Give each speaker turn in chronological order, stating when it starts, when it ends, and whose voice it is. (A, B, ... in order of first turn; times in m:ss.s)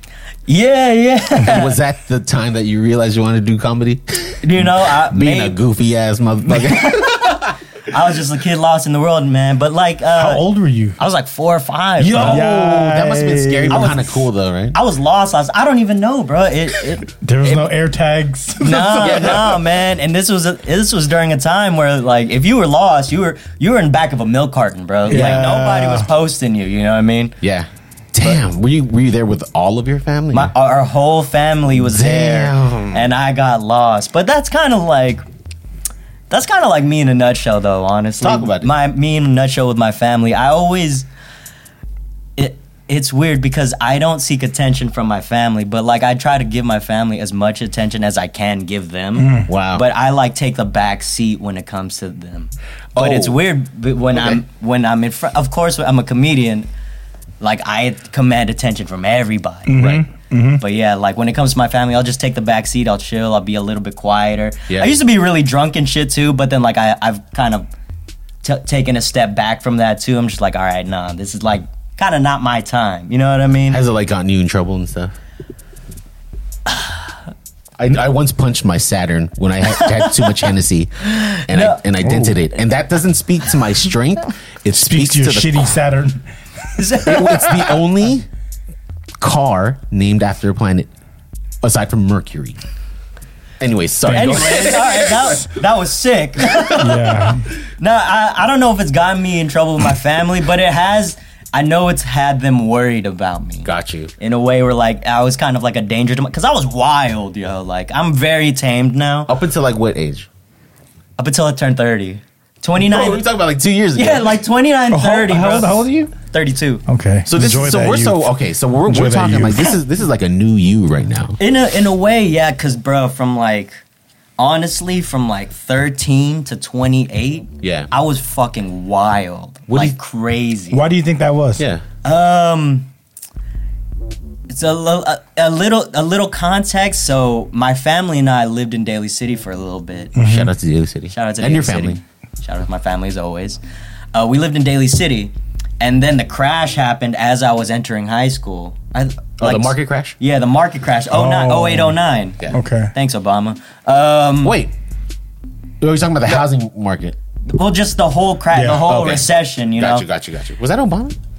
0:00.5-0:01.8 A
0:01.4-0:07.6 B
0:04.4-0:05.6 A
0:06.4-0:10.4 A
0:10.1-0:11.0 C
0:11.0-0:12.4 A
0:12.0-0:14.8 B
0:12.2-0:13.9 C
0:13.7-0:14.0 A
0:14.7-0:17.7 A
0:17.2-0:19.4 C
0:18.6-0:27.4 A
0:18.9-0:19.4 B
0:25.1-0:26.1 C
0:25.1-0:25.5 B
0:27.4-0:30.5 B
0:30.3-0:35.2 A
0:31.8-0:33.1 B
0:36.3-0:41.1 A
0:38.2-0:38.7 B
0:42.4-0:56.7 A
0:49.2-0:49.5 C
0:49.5-0:49.8 B
0:53.0-0:53.4 B
0:54.1-0:54.4 B
0:57.4-0:59.9 A
0:59.7-1:00.6 C
0:59.8-1:00.0 B
1:00.6-1:07.7 A
1:04.7-1:04.9 B
1:08.4-1:13.8 A
1:13.7-1:15.1 B
1:17.8-1:25.8 B
1:19.7-1:20.5 A
1:21.0-1:21.8 A
1:22.0-1:22.3 C
1:24.7-1:26.2 C
1:26.8-1:27.8 A
1:27.0-1:28.3 B
1:29.2-1:30.9 B
1:31.6-1:32.6 B
1:33.6-1:35.4 B
1:34.1-1:35.4 C
1:34.1-1:49.3 A
1:36.8-1:37.4 C
1:43.6-1:44.1 B
1:49.3-1:50.3 B
1:51.2-1:53.2 A
1:52.8-1:54.4 B
1:54.0-1:56.8 A
1:54.9-1:56.1 C
1:56.9-1:58.3 C
1:57.3-2:01.4 B
1:58.9-1:59.7 C
2:01.4-2:03.8 A
2:04.4-2:10.8 A
2:07.6-2:07.9 B
2:09.7-2:10.0 B
2:10.7-2:11.6 C
2:11.6-2:11.8 B
2:12.0-2:12.9 A
2:14.5-2:20.1 A
2:20.2-2:20.5 C
2:20.2-2:22.0 B
2:21.1-2:23.6 A
2:24.1-2:34.6 A
2:29.4-2:30.2 B
2:31.1-2:32.0 C
2:32.5-2:32.9 C
2:34.4-2:34.7 B
2:35.8-2:37.2 B
2:37.5-2:40.0 A
2:38.5-2:38.8 C
2:38.8-2:41.2 B